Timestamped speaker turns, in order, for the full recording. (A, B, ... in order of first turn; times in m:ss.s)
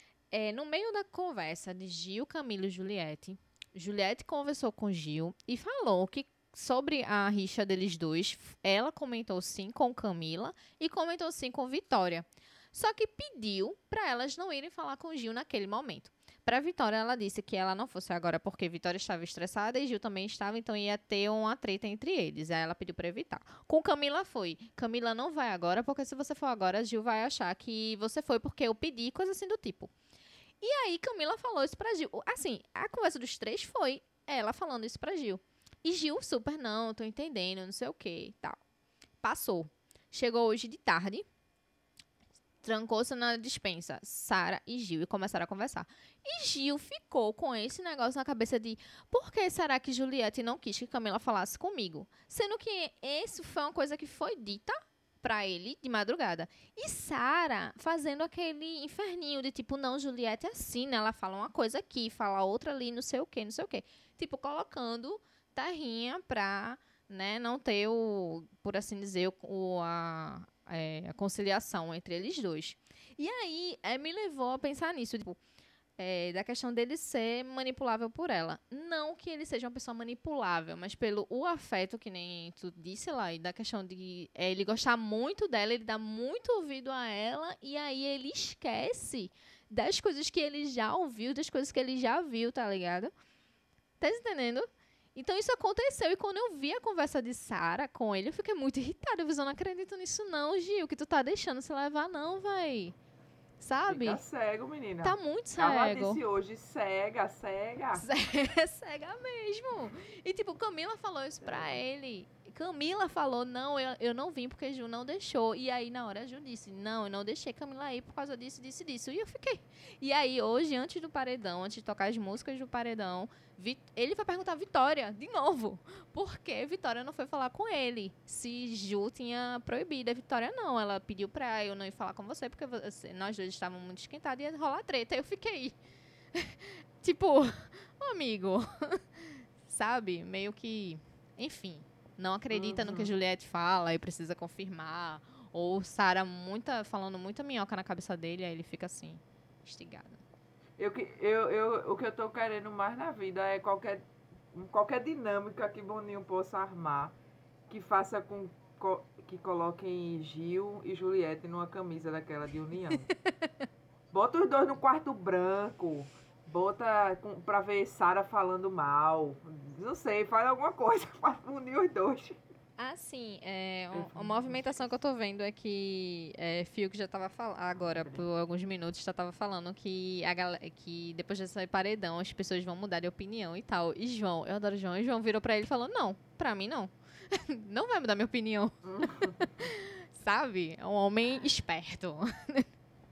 0:00.3-0:29.9 A
0:30.6-0:38.6 A
0:39.2-0:41.2 A
0:42.6-1:15.4 A
1:16.0-1:33.1 A
1:34.0-1:43.0 A
1:43.6-1:44.2 A
1:43.9-1:48.0 B
1:45.0-1:46.2 A
1:48.0-2:15.8 A
1:51.4-1:51.8 B
2:16.3-2:30.2 A
2:22.5-2:23.1 B
2:30.8-2:34.0 B
2:34.5-2:37.1 B
2:37.7-2:43.1 B
2:42.9-2:43.5 A
2:44.1-2:52.4 B
2:52.8-3:08.8 A
2:53.9-2:54.9 B
2:57.8-2:58.2 B
3:08.8-3:09.7 B
3:09.4-3:12.7 A